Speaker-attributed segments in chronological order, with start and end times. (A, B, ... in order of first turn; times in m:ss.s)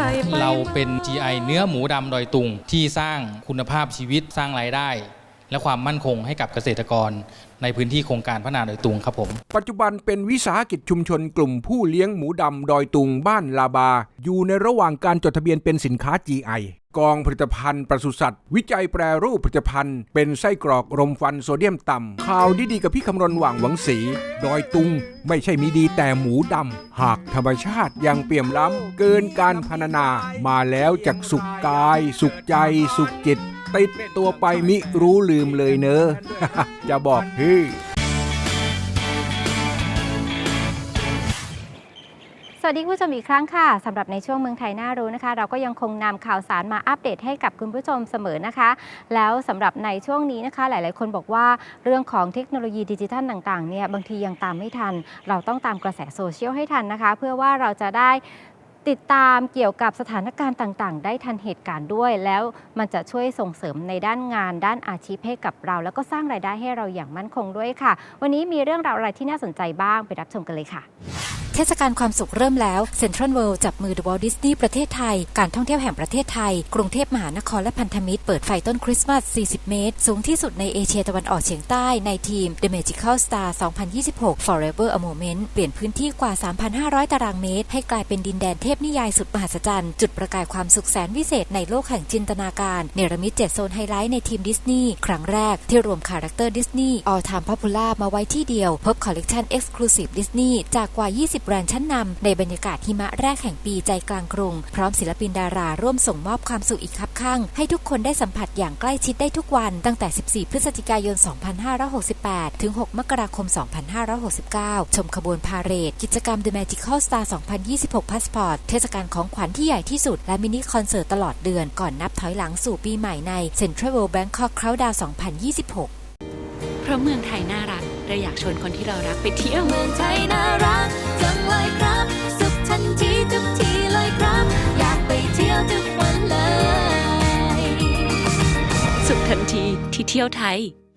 0:00.2-0:09.4 A
0:09.5-0:37.8 B
0:42.6-0:58.2 C
0:58.8-1:10.8 C
1:11.5-2:05.9 D
2:06.8-2:09.7 E
2:09.5-2:18.1 F
2:19.0-2:20.7 E